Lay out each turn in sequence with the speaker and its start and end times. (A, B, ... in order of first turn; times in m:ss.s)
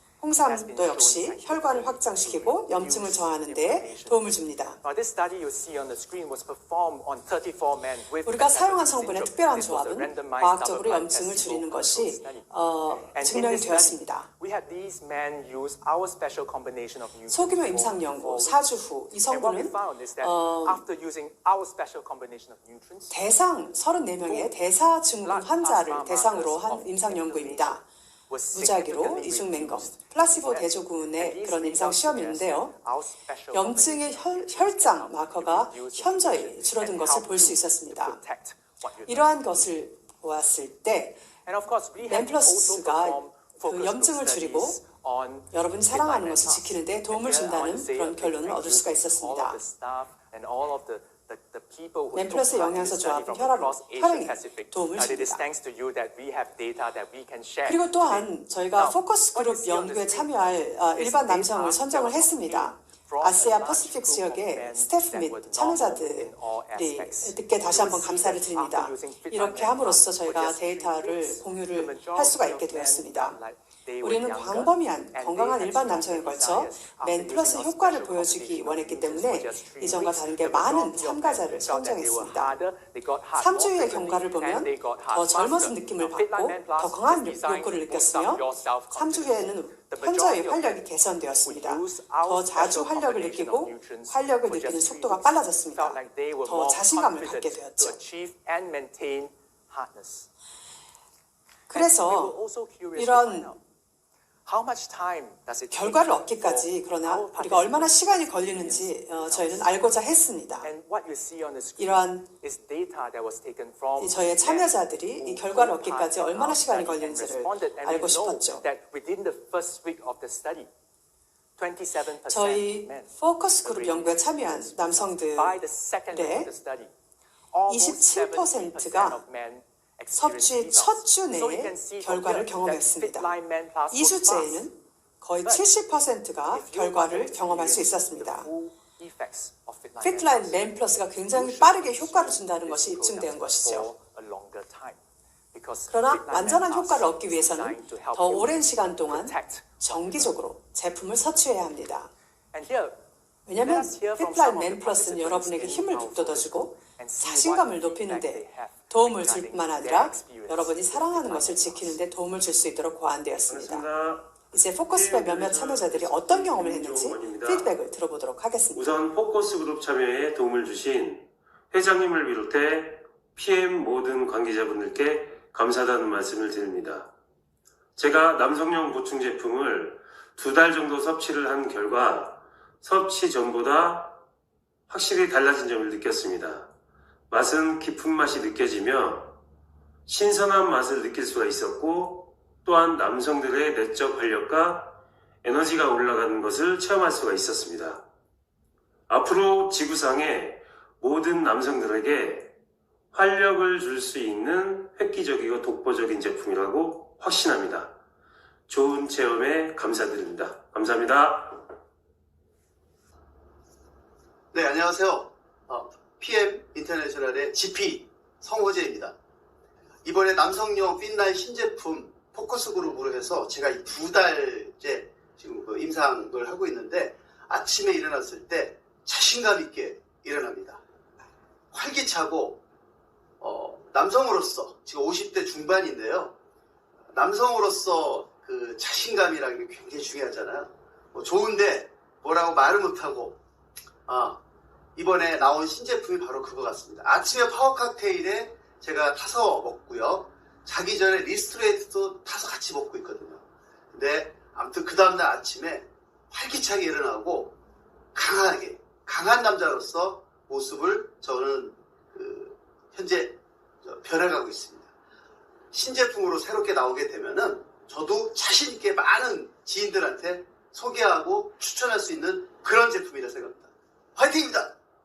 0:00.2-0:04.8 A
0:00.4-0:04.3 B
0:04.8-0:12.5 B
0:08.2-0:14.3 A
0:13.0-0:18.7 B
0:17.3-0:20.8 A
0:19.3-0:23.3 B
0:23.1-0:27.8 A
0:24.3-0:24.6 B
0:25.2-0:39.6 B
0:28.5-0:32.7 A
0:33.5-0:38.2 A
0:39.1-0:41.2 A
0:41.5-1:30.9 B
0:42.0-0:44.8 A
0:45.5-0:49.6 A
0:52.1-0:55.4 A
0:57.7-1:13.4 A
1:14.0-1:22.6 A
1:23.4-1:38.0 A
1:31.4-1:40.3 B
1:41.7-1:42.4 A
1:41.7-1:43.6 B
1:43.0-1:43.5 A
1:44.5-1:50.1 B
1:45.7-1:50.7 A
1:50.6-2:00.7 B
1:51.8-1:52.3 A
1:54.0-1:58.6 A
2:01.6-2:06.9 B
2:02.3-2:05.6 A
2:06.1-2:06.5 A
2:07.5-2:14.7 B
2:07.7-2:09.2 A
2:10.1-2:13.3 A
2:13.9-2:18.5 A
2:15.4-2:15.7 B
2:16.5-2:25.0 B
2:20.0-2:23.9 A
2:25.5-2:30.4 B
2:25.9-2:32.1 A
2:32.5-2:33.0 B
2:33.5-2:43.8 A
2:33.6-2:42.0 B
2:43.5-2:47.7 C
2:44.5-2:48.9 A
2:48.8-2:57.1 C
2:58.0-3:04.2 C
3:04.9-3:06.7 C
3:07.3-3:09.4 C
3:10.1-3:18.0 C
3:19.1-3:22.5 C
3:23.1-3:27.9 C
3:28.7-3:31.7 C
3:34.5-3:39.2 D
3:40.0-3:50.8 D
3:51.7-3:52.6 D
3:53.4-3:56.4 D
3:57.1-4:03.4 D
4:04.1-4:04.4 D
4:05.0-4:13.4 D
4:13.9-4:17.6 D
4:18.1-4:24.9 D
4:25.7-4:34.8 D